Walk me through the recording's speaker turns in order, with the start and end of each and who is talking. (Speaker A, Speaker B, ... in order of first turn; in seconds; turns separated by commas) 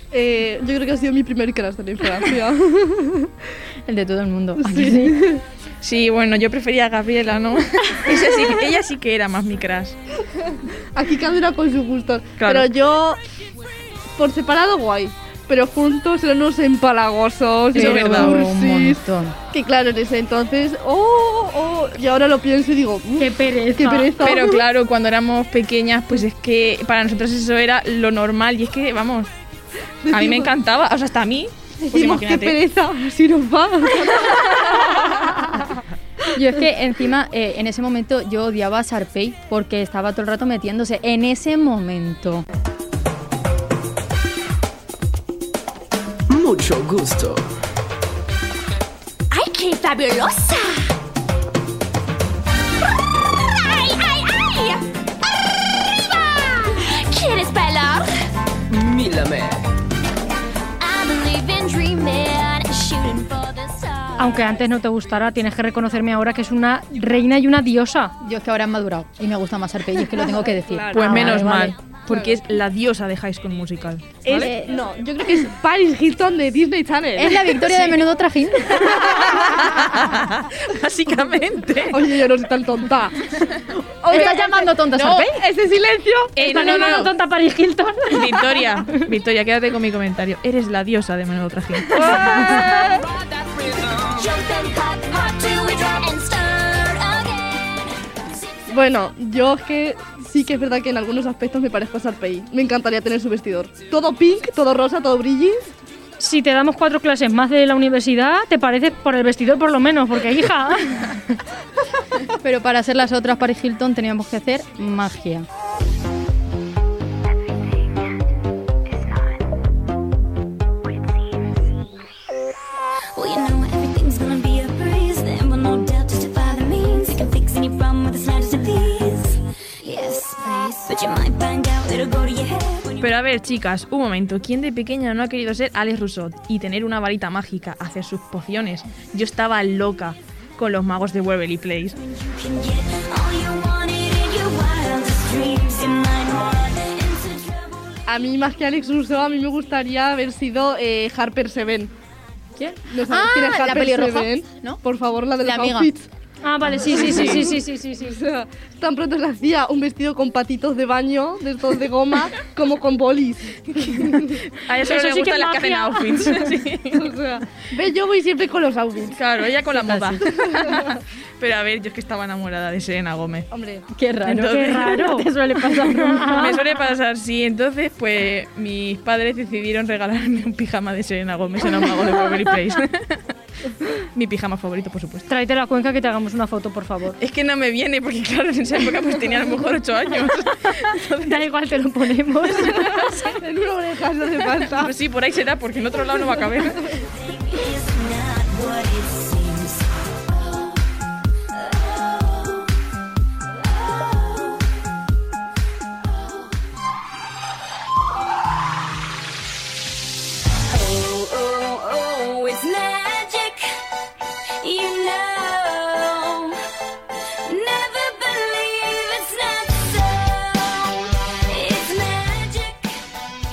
Speaker A: 0.1-3.3, Speaker B: 3.9-5.2, Speaker A: 4.6-5.4, Speaker C: 5.8-10.0, Speaker A: 10.3-13.2, Speaker C: 12.4-12.7, Speaker A: 14.2-24.7, Speaker C: 17.7-18.4, Speaker B: 17.8-19.4, Speaker D: 23.2-24.2, Speaker C: 24.2-29.3, Speaker A: 30.0-30.5, Speaker C: 30.1-32.6, Speaker A: 31.8-35.5, Speaker B: 36.3-42.5, Speaker E: 46.3-47.4, Speaker F: 49.3-50.9, Speaker F: 53.5-54.8, Speaker F: 55.8-58.1, Speaker E: 58.7-59.5, Speaker F: 60.8-64.4, Speaker D: 64.2-68.1, Speaker B: 68.2-71.8, Speaker A: 70.2-71.4, Speaker C: 70.9-74.5, Speaker A: 72.1-72.4, Speaker A: 74.2-77.9, Speaker B: 77.2-79.6, Speaker C: 78.9-82.0, Speaker A: 81.9-83.2, Speaker B: 83.6-85.4, Speaker A: 84.0-87.0, Speaker C: 86.3-87.1, Speaker D: 86.4-89.1, Speaker C: 88.1-92.5, Speaker A: 91.9-93.1, Speaker F: 93.7-97.8, Speaker A: 98.7-105.7, Speaker D: 106.2-111.1, Speaker B: 112.3-115.5, Speaker F: 123.2-133.0, Speaker C: 133.0-142.0, Speaker F: 142.2-147.8, Speaker A: 148.1-151.9, Speaker B: 152.6-154.8, Speaker A: 152.9-156.1, Speaker B: 155.4-155.9, Speaker D: 156.4-158.2, Speaker A: 156.8-164.3, Speaker C: 157.1-157.4, Speaker C: 163.9-167.1, Speaker D: 164.8-166.5, Speaker A: 167.0-169.2, Speaker C: 169.1-173.5, Speaker B: 169.7-170.2, Speaker A: 173.5-173.9, Speaker B: 173.9-176.5, Speaker D: 174.2-176.5, Speaker C: 174.3-174.9, Speaker C: 176.3-183.2, Speaker C: 184.2-185.3, Speaker D: 185.3-187.2, Speaker C: 187.2-191.4, Speaker D: 191.2-193.4, Speaker A: 192.5-194.9, Speaker C: 194.4-197.0, Speaker F: 197.6-199.8, Speaker F: 210.7-213.7, Speaker F: 214.6-216.6, Speaker F: 217.5-220.8, Speaker F: 221.5-222.9